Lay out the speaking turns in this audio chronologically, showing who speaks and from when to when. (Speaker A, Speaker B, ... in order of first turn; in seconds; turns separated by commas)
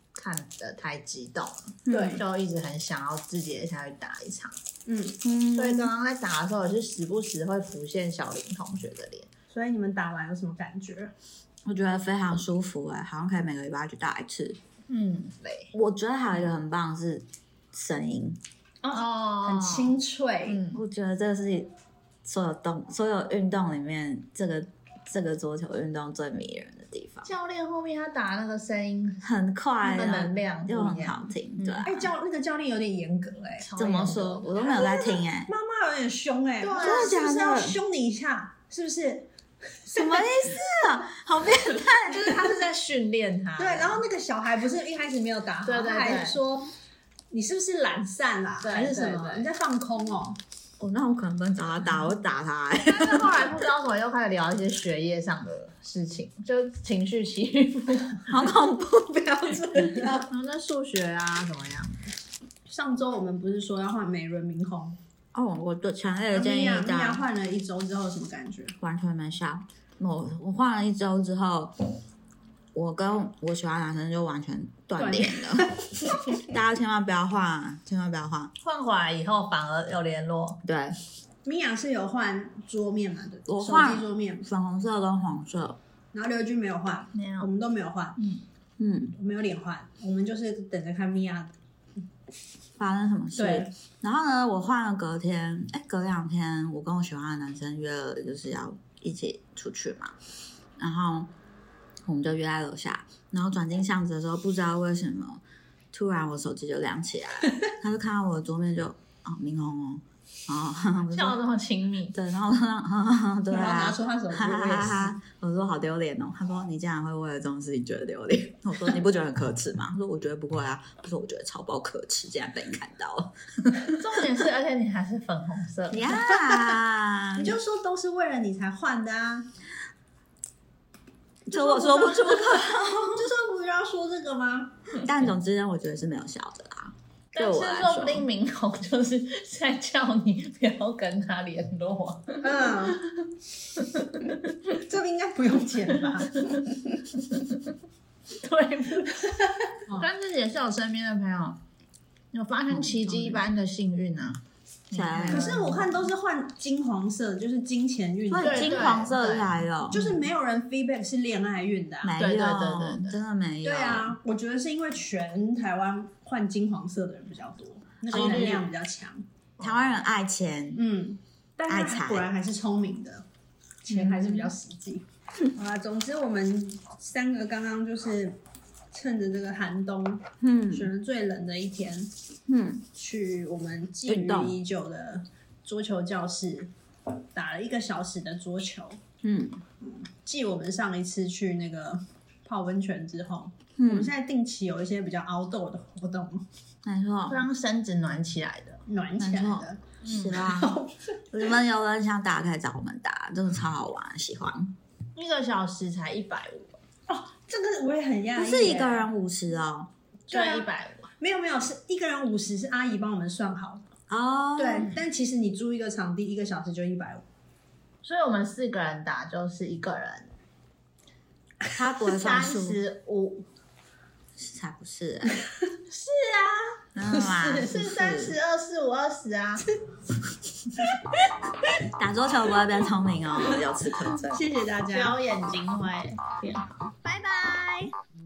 Speaker A: 0.1-4.6, Speaker B: 1.9-2.2, Speaker C: 1.9-2.2, Speaker C: 4.8-5.2, Speaker B: 5.2-5.9, Speaker A: 5.5-9.3, Speaker C: 9.5-11.1, Speaker B: 11.6-14.6, Speaker A: 14.9-15.7, Speaker B: 15.7-18.4, Speaker C: 18.8-20.6, Speaker A: 18.9-19.9, Speaker A: 20.4-20.8, Speaker B: 20.7-21.7, Speaker B: 22.2-27.3, Speaker A: 27.2-29.2, Speaker B: 29.2-32.0, Speaker A: 29.8-31.9, Speaker C: 31.8-33.7, Speaker A: 33.6-34.6, Speaker B: 33.8-35.5, Speaker C: 34.5-39.3, Speaker A: 36.6-37.1, Speaker B: 36.8-37.8, Speaker C: 39.9-40.3, Speaker B: 39.9-42.4, Speaker A: 42.0-44.0, Speaker C: 43.6-46.7, Speaker A: 45.6-46.4, Speaker C: 47.3-50.4, Speaker A: 48.6-49.5, Speaker B: 50.8-53.5, Speaker A: 52.8-58.2, Speaker B: 58.2-60.1, Speaker C: 59.6-60.3, Speaker A: 60.2-62.1, Speaker C: 62.7-65.0, Speaker B: 65.3-67.2, Speaker C: 66.3-68.7, Speaker B: 68.8-71.7, Speaker B: 72.7-78.5, Speaker C: 75.0-76.4, Speaker A: 78.6-80.6, Speaker B: 80.6-81.0, Speaker C: 81.4-84.5, Speaker B: 83.5-85.8, Speaker C: 86.1-88.2, Speaker A: 87.1-87.5, Speaker A: 88.2-88.4, Speaker B: 88.8-89.2, Speaker C: 89.2-91.5, Speaker B: 92.8-100.1, Speaker C: 93.3-93.7, Speaker B: 100.8-101.3, Speaker B: 102.0-111.4, Speaker A: 111.1-112.1, Speaker B: 112.1-123.9, Speaker C: 113.5-115.1, Speaker A: 123.9-126.2, Speaker B: 125.9-127.5, Speaker C: 127.3-129.5, Speaker C: 131.5-134.7, Speaker B: 131.5-133.3, Speaker B: 135.0-138.3, Speaker A: 137.3-142.9, Speaker C: 142.4-143.0, Speaker A: 143.8-144.5, Speaker C: 144.8-146.8, Speaker A: 148.3-149.3, Speaker A: 149.9-151.6, Speaker A: 152.3-156.1, Speaker B: 152.7-153.2, Speaker B: 154.9-155.5, Speaker C: 155.2-158.9, Speaker B: 158.3-160.1, Speaker A: 158.4-159.6, Speaker C: 159.9-162.2, Speaker B: 162.0-164.2, Speaker A: 162.2-163.2, Speaker C: 163.6-169.2, Speaker B: 168.1-168.6, Speaker A: 168.1-168.6, Speaker B: 169.6-170.8, Speaker C: 170.8-173.2, Speaker B: 171.7-172.3, Speaker C: 173.8-178.4, Speaker B: 173.9-174.5, Speaker C: 178.9-182.1, Speaker B: 180.4-180.9, Speaker B: 182.5-182.8, Speaker C: 182.9-186.7, Speaker B: 184.1-184.6, Speaker C: 187.3-189.0, Speaker B: 189.2-189.6, Speaker C: 189.8-196.4, Speaker B: 193.8-194.1, Speaker B: 196.8-197.4, Speaker A: 197.3-198.8, Speaker C: 198.9-201.0, Speaker B: 199.2-200.8, Speaker A: 200.0-200.4, Speaker B: 201.3-204.7, Speaker A: 205.1-206.8, Speaker C: 207.1-209.1, Speaker B: 208.3-209.9, Speaker C: 210.3-210.7, Speaker A: 210.3-211.1, Speaker C: 211.2-213.8, Speaker B: 214.1-214.9, Speaker C: 214.6-217.2, Speaker A: 218.0-220.3, Speaker B: 221.7-222.8, Speaker A: 222.1-223.4, Speaker B: 224.4-225.4, Speaker A: 225.9-226.8, Speaker B: 226.9-228.4, Speaker C: 227.2-227.8, Speaker A: 227.4-229.7, Speaker B: 231.9-234.4, Speaker C: 234.3-235.2, Speaker A: 234.9-237.9